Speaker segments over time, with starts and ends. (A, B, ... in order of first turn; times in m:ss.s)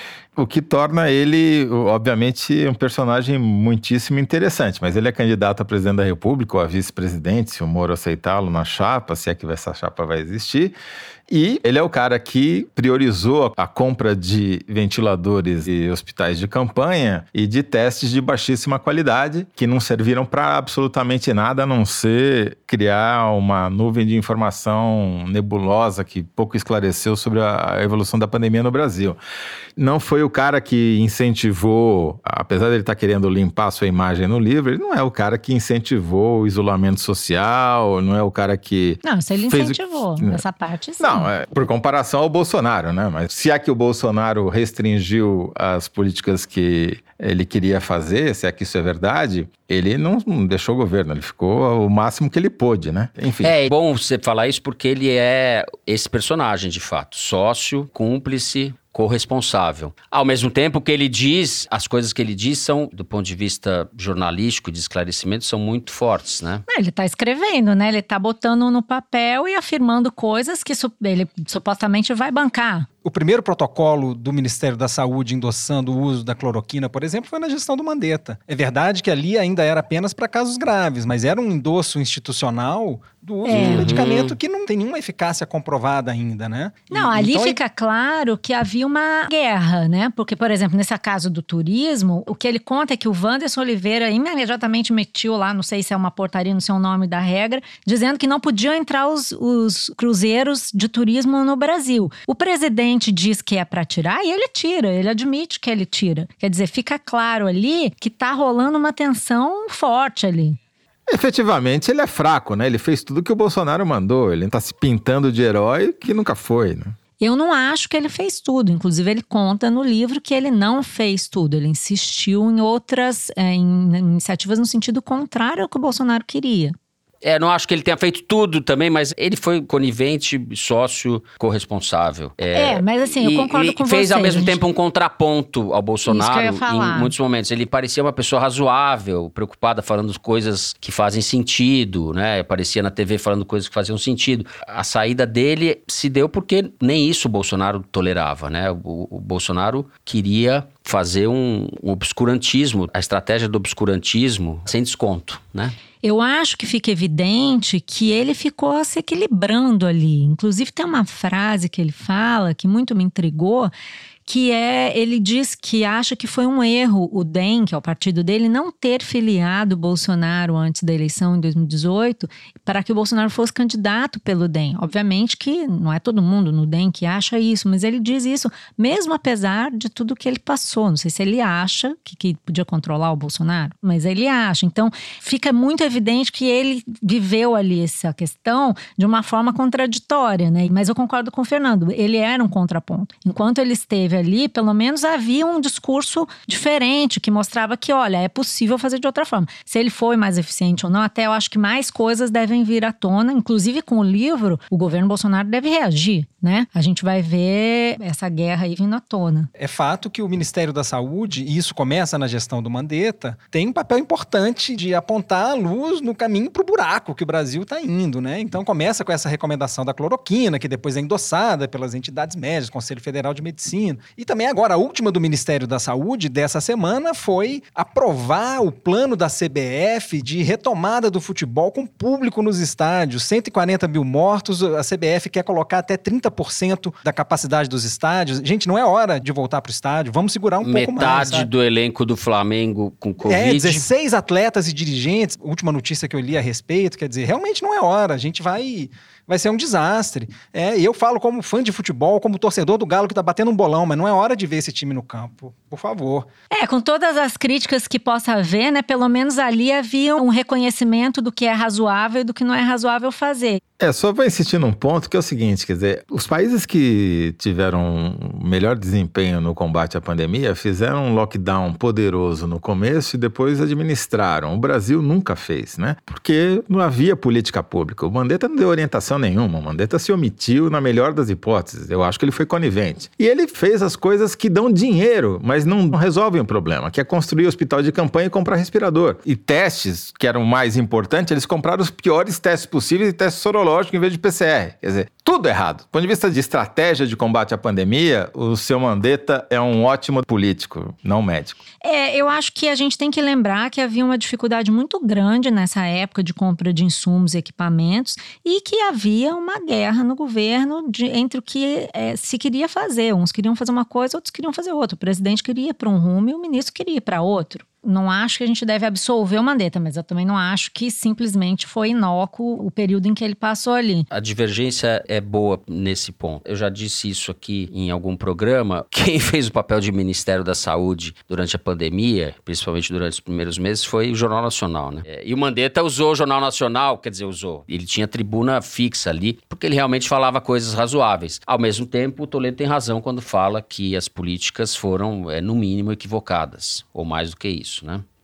0:00.4-0:10.8 A
0:11.3-0:29.2 A
0:29.8-0:40.4 A
0:39.0-0:41.3 B
0:41.0-0:53.6 A
0:53.4-1:06.6 C
1:06.7-1:12.9 B
1:13.0-1:27.6 D
1:23.5-1:24.0 B
1:23.5-1:24.4 C
1:26.9-1:50.6 B
1:51.1-1:57.0 A
1:57.2-2:06.8 B
2:07.2-2:35.8 C
2:12.6-2:14.6 B
2:16.1-2:17.1 B
2:36.0-2:43.7 B
2:44.3-3:29.5 B
3:29.6-4:01.5 D
4:00.6-4:03.9 C
4:03.3-4:16.3 D
4:16.5-4:23.6 B
4:23.8-5:01.6 A
5:01.8-5:24.1 B
5:24.1-5:48.0 C